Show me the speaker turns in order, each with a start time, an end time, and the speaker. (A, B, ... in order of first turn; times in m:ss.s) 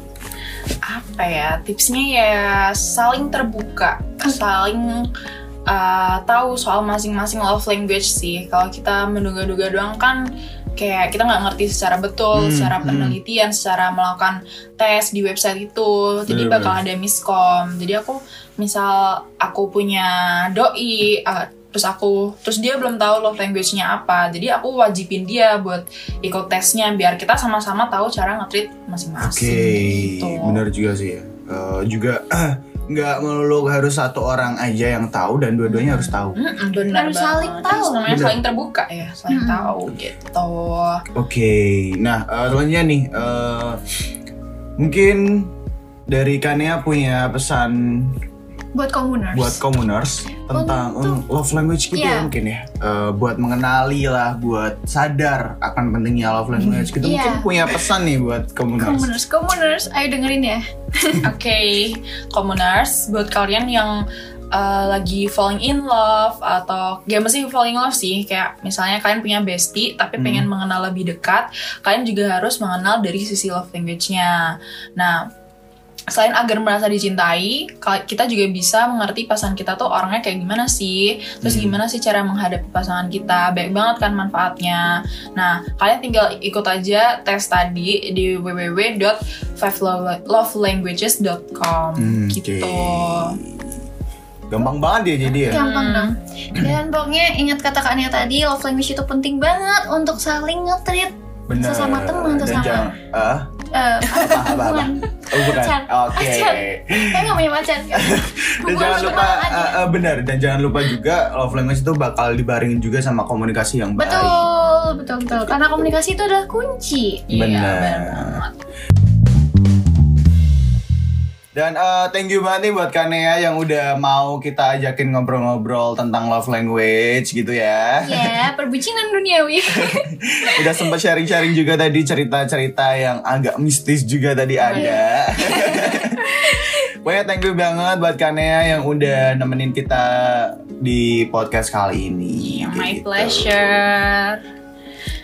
0:00.8-0:05.1 A
0:05.7-0:30.6 A
0:12.3-0:13.2 B
0:16.3-0:16.8 B
0:29.2-0:36.4 B
0:35.9-0:41.0 A
0:36.9-0:38.0 C
0:38.1-0:38.4 B
0:39.3-0:39.7 C
0:41.2-0:43.8 B
0:44.8-0:45.5 B
0:46.1-0:48.2 B
0:48.8-0:49.6 C
0:49.3-0:59.1 B
0:50.5-0:51.2 C
0:51.9-0:52.3 C
0:57.0-0:57.8 C
0:58.8-1:01.2 C
1:01.2-1:15.3 A
1:10.2-1:10.5 B
1:16.1-1:33.4 A
1:21.4-1:21.8 B
1:32.0-1:33.8 B
1:34.5-1:35.6 B
1:35.5-1:42.9 C
1:35.5-1:36.2 A
1:41.5-1:43.5 B
1:43.7-1:49.8 C
1:44.0-1:54.5 B
1:48.9-1:49.2 A
1:54.0-1:57.3 C
1:55.6-1:55.9 B
1:57.3-1:58.6 A
1:57.3-1:58.4 B
2:01.5-2:08.3 B
2:08.0-2:10.8 C
2:09.8-2:16.2 B
2:14.6-2:15.0 A
2:14.7-2:16.8 C
2:17.0-2:23.8 B
2:22.4-2:24.4 A